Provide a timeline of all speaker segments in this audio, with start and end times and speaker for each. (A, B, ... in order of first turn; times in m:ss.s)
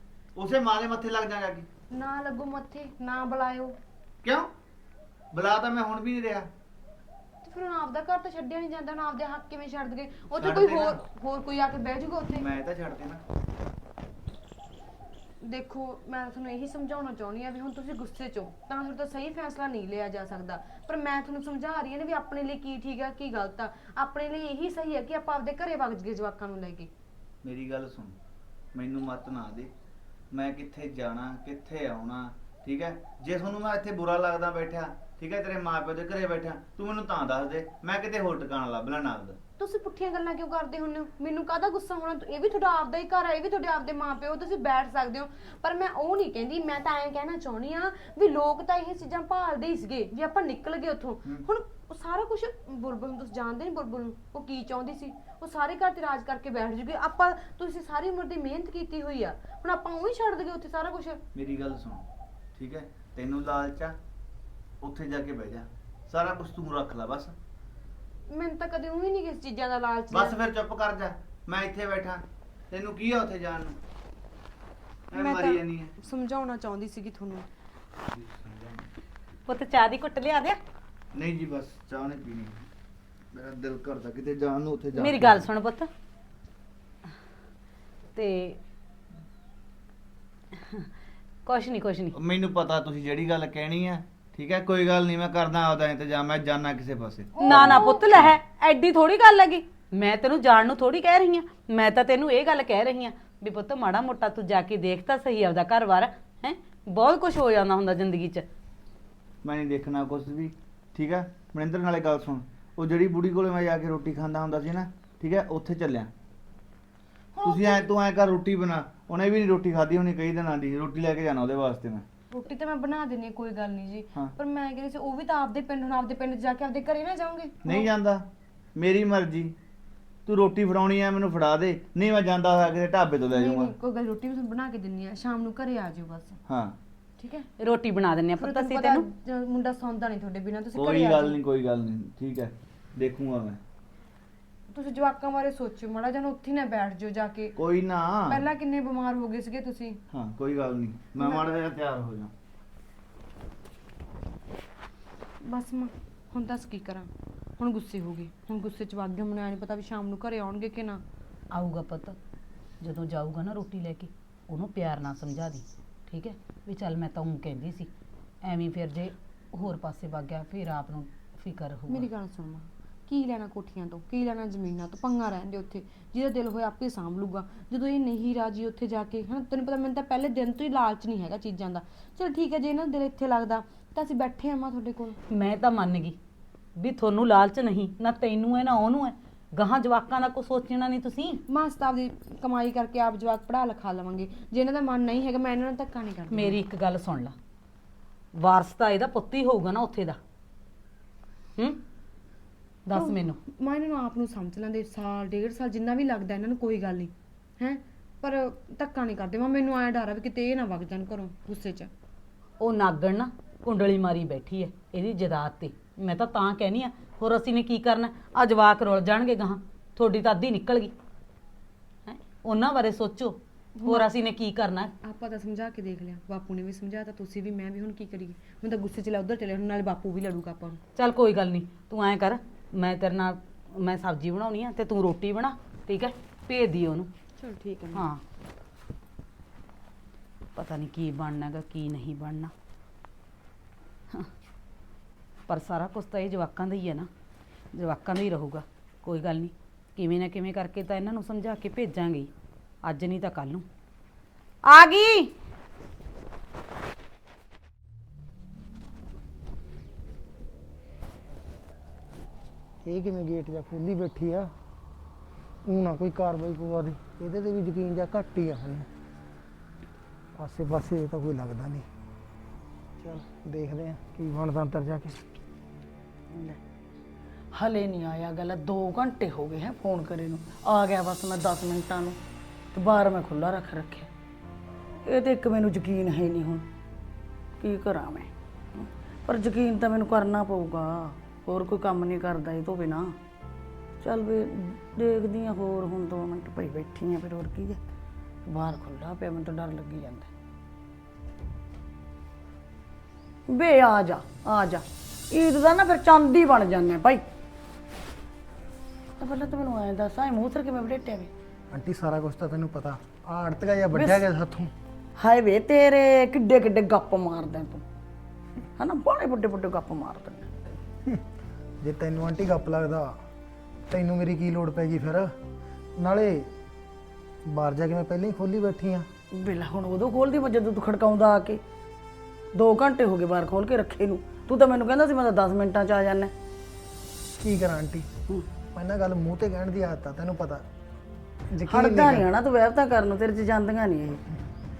0:00.4-0:01.7 A
0:01.9-0:03.8 B
0:04.2-0:04.5 A
0:05.3-0:06.5 A
0:07.4-0:12.4 B
0:10.4-0:11.0 A
0:12.3-0:13.2 A
0:15.4-0:26.9 B
0:27.4-0:28.2 A
0:28.7-0:29.7 A
0:30.3-0:39.4 A
0:39.6-1:01.2 B
1:01.4-1:02.0 A
1:02.6-1:04.0 A
1:04.8-1:07.4 A
1:08.3-1:10.4 B
1:10.1-1:13.8 A
1:15.1-1:15.9 A
1:15.2-1:17.5 B
1:18.1-1:18.9 A
1:19.5-1:20.6 C
1:21.1-1:22.7 A
1:23.3-1:25.5 A
1:25.0-1:25.9 C
1:28.2-1:28.6 C
1:31.5-1:32.2 C
1:32.2-1:38.3 A
1:37.4-1:38.1 B
1:37.4-1:48.5 C
1:49.4-1:56.1 A
1:57.4-1:57.9 B
1:57.4-2:02.0 A
2:02.3-2:07.9 B
2:07.6-2:08.2 A
2:08.8-2:09.5 A
2:10.3-2:13.7 A
2:13.3-2:16.4 B
2:16.5-2:16.8 A
2:17.2-2:17.5 B
2:17.6-2:19.0 C
2:18.4-2:21.4 B
2:20.8-2:23.6 A
2:24.7-2:27.5 B
2:27.6-2:28.4 A
2:28.3-2:30.0 B
2:30.1-2:32.3 A
2:31.2-2:31.5 B
2:35.4-2:41.0 B
2:41.5-2:42.2 C
2:42.8-2:47.9 C
2:48.4-2:52.1 C
2:51.9-3:05.2 B
3:05.3-3:06.2 C
3:06.8-3:11.4 C
3:11.5-3:16.6 B
3:16.3-3:17.4 C
3:18.4-3:20.2 C
3:22.9-3:23.4 C
3:23.0-3:31.9 B
3:32.6-3:40.9 C
3:42.1-3:44.9 C
3:43.8-3:44.1 B
3:45.0-3:50.8 B
3:51.0-3:57.1 C
3:57.4-3:58.1 B
3:57.9-3:58.2 C
4:00.6-4:02.5 C
4:05.5-4:07.1 C
4:07.7-4:12.3 C
4:12.8-4:13.7 C
4:14.7-4:15.3 C
4:22.8-4:24.5 D
4:25.6-4:28.9 D
4:30.4-4:31.9 D
4:33.0-4:35.2 D
4:36.3-4:36.6 E
4:37.6-4:42.2 E
4:42.7-4:44.1 E
4:45.0-4:46.7 E
4:47.6-4:53.2 E
4:54.0-4:57.8 E
4:58.5-5:00.3 E
5:03.5-5:07.2 E
5:09.2-5:11.3 E
5:11.7-5:14.7 D
5:13.9-5:14.2 E
5:15.2-5:17.8 E
5:18.8-5:20.7 E
5:21.8-5:23.2 D
5:23.9-5:25.3 D
5:26.0-5:26.5 D
5:27.5-5:29.1 D
5:29.4-5:31.6 E
5:32.6-5:36.3 E
5:37.4-5:38.1 D
5:38.7-5:40.6 D
5:41.5-5:42.3 D
5:41.7-5:44.2 E